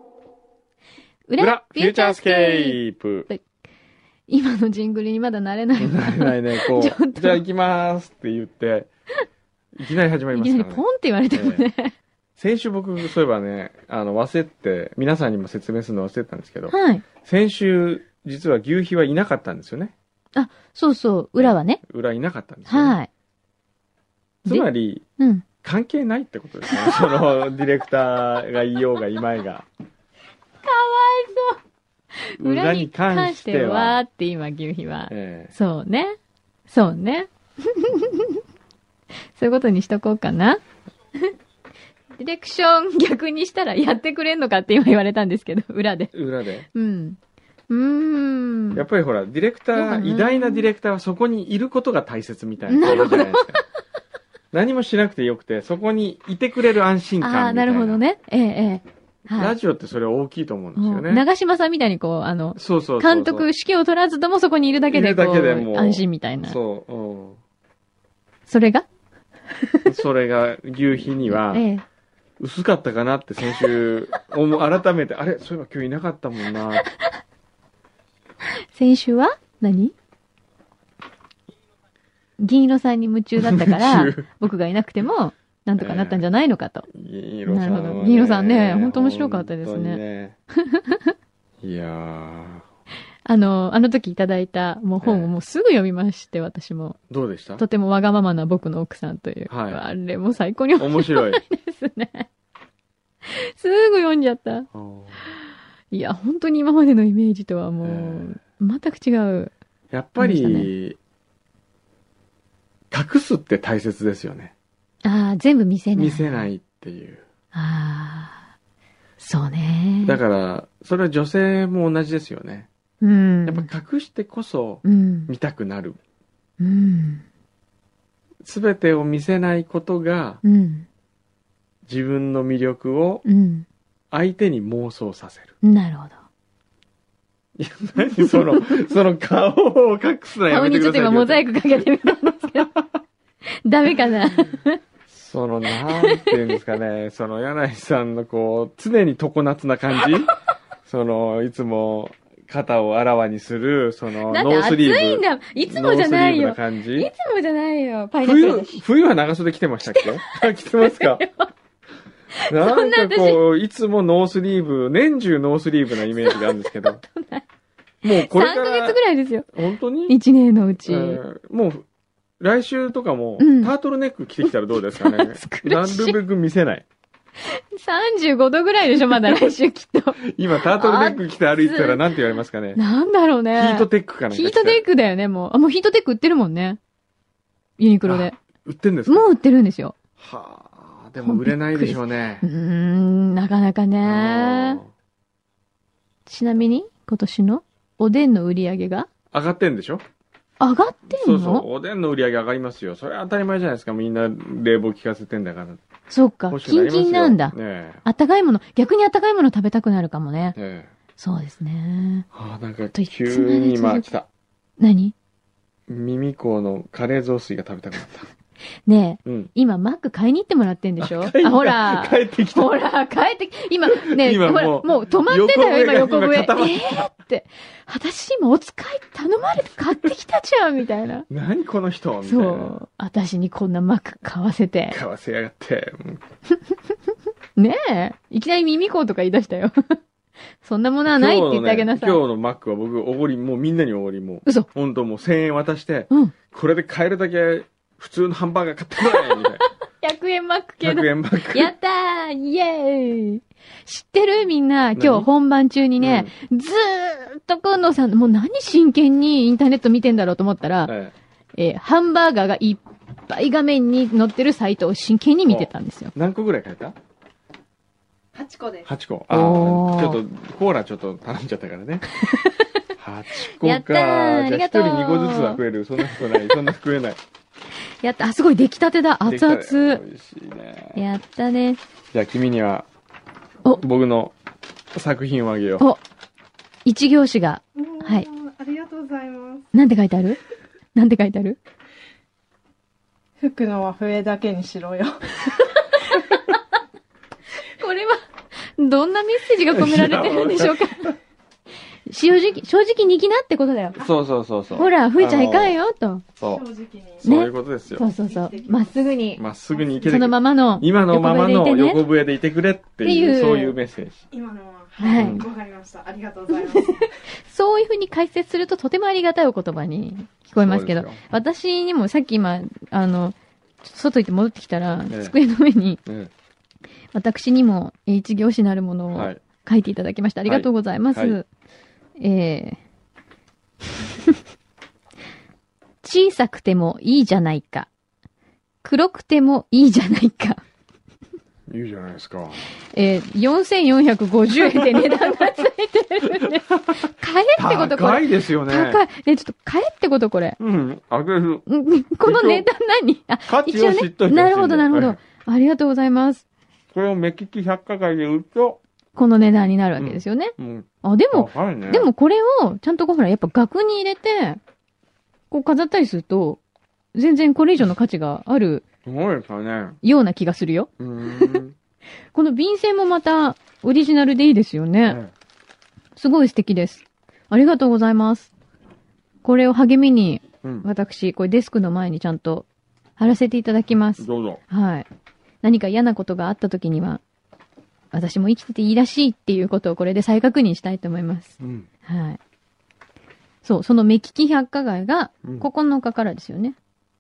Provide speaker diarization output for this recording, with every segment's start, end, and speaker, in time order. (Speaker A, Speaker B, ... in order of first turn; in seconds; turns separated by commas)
Speaker A: 1.3-2.8, Speaker B: 1.4-3.3, Speaker A: 4.3-7.4, Speaker B: 5.8-8.9, Speaker B: 9.8-11.7, Speaker A: 10.3-11.9, Speaker B: 12.4-19.9, Speaker A: 16.7-17.0, Speaker A: 20.4-21.8, Speaker B: 21.4-23.0, Speaker A: 22.7-23.1, Speaker B: 24.4-25.0, Speaker A: 24.5-25.5, Speaker B: 25.6-29.7, Speaker A: 26.7-27.2, Speaker A: 30.6-31.6, Speaker A: 32.1-36.2, Speaker B: 32.4-34.0, Speaker B: 35.1-35.5, Speaker A: 36.7-38.4, Speaker A: 39.4-40.6, Speaker A: 42.2-46.1, Speaker B: 46.1-46.7, Speaker A: 46.7-48.8, Speaker B: 48.8-53.6, Speaker A: 49.7-50.7, Speaker A: 52.7-53.6, Speaker B: 54.5-58.0, Speaker A: 57.2-59.6, Speaker B: 59.4-61.2, Speaker A: 60.8-66.6, Speaker B: 62.6-63.5, Speaker B: 64.9-67.4, Speaker A: 68.5-68.9, Speaker A: 69.5-69.9, Speaker B: 69.8-71.7, Speaker A: 71.2-71.8, Speaker B: 72.4-76.9, Speaker A: 73.5-73.8, Speaker A: 76.5-77.2, Speaker A: 78.7-79.9, Speaker A: 82.4-86.9, Speaker B: 83.4-84.3, Speaker B: 85.8-86.2, Speaker B: 86.9-90.4, Speaker A: 87.5-90.0, Speaker A: 90.6-91.1, Speaker B: 91.6-92.6, Speaker A: 93.2-97.0, Speaker B: 95.0-95.3, Speaker B: 97.1-97.6, Speaker A: 97.6-102.3, Speaker B: 99.5-99.8, Speaker B: 100.8-101.4, Speaker A: 103.2-104.7, Speaker B: 104.7-105.2, Speaker A: 105.9-109.5, Speaker B: 107.8-108.4, Speaker B: 109.9-111.0, Speaker A: 110.2-110.7, Speaker B: 112.9-114.5, Speaker A: 115.0-116.5, Speaker B: 116.0-117.2, Speaker A: 117.5-118.4, Speaker A: 119.2-120.2, Speaker B: 120.0-122.7, Speaker A: 123.0-123.7, Speaker B: 123.5-126.0, Speaker A: 124.8-125.3, Speaker A: 126.6-127.2, Speaker B: 128.4-130.4, Speaker A: 130.4-130.9, Speaker B: 131.9-133.2, Speaker A: 133.2-133.7, Speaker B: 134.1-135.6, Speaker A: 135.6-136.2, Speaker B: 137.6-141.4, Speaker A: 138.1-138.7, Speaker A: 140.5-142.7, Speaker A: 143.5-144.8, Speaker B: 145.1-150.3, Speaker A: 145.7-146.5, Speaker A: 150.0-150.2, Speaker B: 150.8-157.1, Speaker A: 154.3-158.8, Speaker B: 158.2-161.2, Speaker A: 159.9-161.5, Speaker A: 162.4-163.4, Speaker B: 162.5-167.0, Speaker A: 166.1-167.4, Speaker B: 168.0-169.0, Speaker A: 168.1-169.5, Speaker B: 169.5-170.2, Speaker A: 170.1-171.2, Speaker B: 170.9-171.8, Speaker B: 172.4-176.9, Speaker A: 173.4-173.7, Speaker A: 174.9-176.2, Speaker A: 177.4-182.2, Speaker B: 180.2-182.8, Speaker A: 182.8-186.8, Speaker B: 183.6-184.8, Speaker A: 187.8-188.4, Speaker B: 188.1-189.3, Speaker A: 189.1-190.0, Speaker B: 190.2-192.5, Speaker A: 191.2-194.8, Speaker B: 194.0-194.9, Speaker A: 196.3-199.1, Speaker B: 199.3-200.0, Speaker A: 200.6-201.7, Speaker B: 201.1-205.8, Speaker A: 206.1-210.6, Speaker B: 206.5-208.0, Speaker B: 210.6-210.9, Speaker A: 211.2-212.3, Speaker B: 212.3-214.3, Speaker A: 213.0-214.1, Speaker A: 214.8-215.2, Speaker B: 215.9-218.3, Speaker A: 218.9-231.3, Speaker B: 219.2-219.5, Speaker B: 221.0-222.8, Speaker B: 223.9-227.1, Speaker B: 231.3-232.8, Speaker A: 232.2-235.0, Speaker B: 234.9-236.2, Speaker A: 237.6-240.0, Speaker A: 240.6-242.2, Speaker B: 241.1-249.7, Speaker A: 249.0-249.5, Speaker A: 250.0-260.9, Speaker B: 250.8-251.7, Speaker B: 255.0-255.3, Speaker B: 256.0-256.3, Speaker B: 260.9-261.1, Speaker A: 261.5-266.1, Speaker B: 265.5-266.9, Speaker C: 268.3-268.9, Speaker B: 268.9-272.1, Speaker A: 269.3-270.2, Speaker A: 272.2-272.9, Speaker B: 273.0-277.2, Speaker A: 273.4-275.6, Speaker A: 278.0-280.0, Speaker B: 279.2-281.0, Speaker A: 280.9-281.8, Speaker B: 282.1-282.9, Speaker B: 283.8-284.3, Speaker B: 284.9-285.9, Speaker A: 286.9-288.3, Speaker C: 287.8-289.7, Speaker A: 289.7-290.4, Speaker A: 290.9-291.6, Speaker C: 293.4-295.4, Speaker A: 295.7-296.6, Speaker A: 297.5-301.1, Speaker B: 299.7-301.2, Speaker A: 302.1-304.1, Speaker B: 304.0-305.8, Speaker A: 304.7-306.2, Speaker B: 306.4-306.6, Speaker C: 306.4-307.2, Speaker B: 307.2-308.1, Speaker A: 307.2-309.4, Speaker C: 308.1-310.2, Speaker B: 309.4-314.2, Speaker A: 310.1-312.0, Speaker A: 313.0-313.8, Speaker C: 314.3-317.1, Speaker A: 315.0-315.4, Speaker B: 315.1-315.5, Speaker A: 316.5-326.0, Speaker B: 320.6-321.2, Speaker B: 325.1-325.4, Speaker B: 326.1-326.3, Speaker A: 327.1-331.5, Speaker B: 329.1-329.4, Speaker B: 330.5-331.4, Speaker A: 332.2-332.8, Speaker A: 336.0-337.9, Speaker A: 338.8-340.6, Speaker B: 341.7-342.6, Speaker A: 342.9-350.6, Speaker B: 344.6-345.3, Speaker B: 346.2-349.0, Speaker B: 350.6-351.7, Speaker A: 351.7-356.4, Speaker B: 352.2-352.7, Speaker B: 353.5-355.2, Speaker B: 356.9-358.8, Speaker A: 359.2-364.6, Speaker B: 360.0-362.1, Speaker A: 365.5-366.6, Speaker A: 367.1-368.9, Speaker B: 369.1-370.0, Speaker A: 370.0-371.6, Speaker B: 371.0-371.8, Speaker A: 372.3-375.2, Speaker B: 375.1-375.3, Speaker A: 376.2-378.5, Speaker A: 379.4-382.7, Speaker A: 383.2-385.1, Speaker B: 384.2-384.6, Speaker A: 385.6-387.2, Speaker A: 388.1-392.4, Speaker B: 391.6-391.9, Speaker A: 393.6-396.8, Speaker B: 395.4-395.7